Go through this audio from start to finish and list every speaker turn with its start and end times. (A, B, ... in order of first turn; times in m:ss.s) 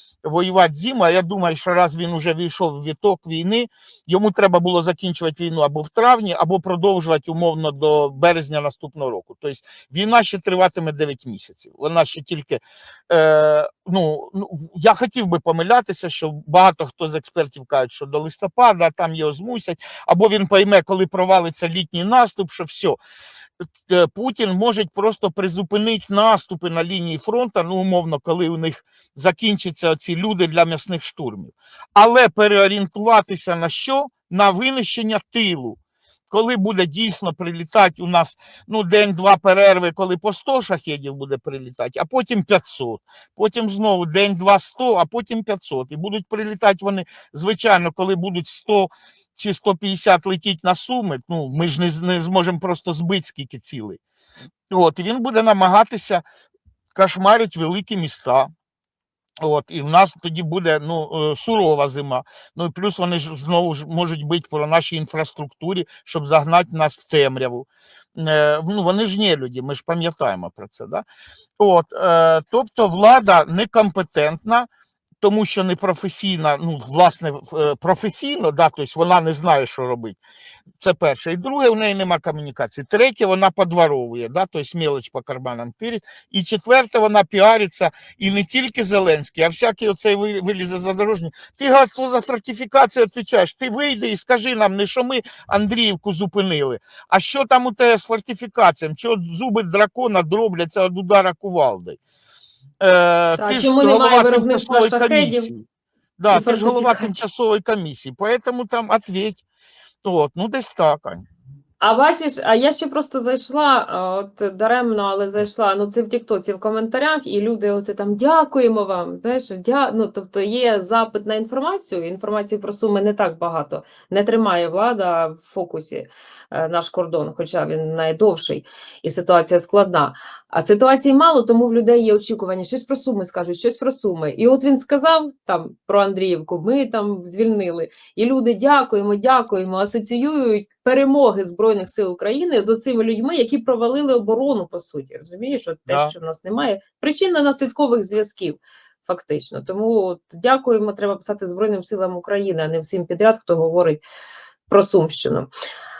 0:00.2-0:23.0 A
0:23.9-0:35.8 A
0:36.3-0:54.0 A
0:54.7-0:56.2 A
0:56.9-0:58.5 A
0:59.4-1:11.0 A
1:11.6-1:14.7 A
1:15.2-1:20.2 A
1:20.8-1:42.0 A
1:42.8-1:45.6 A
1:43.4-1:45.5 B
1:46.2-1:49.4 A
1:46.3-1:47.2 B
1:50.0-1:51.2 A
1:51.8-2:34.0 B
2:25.9-2:26.1 A
2:34.7-2:35.5 B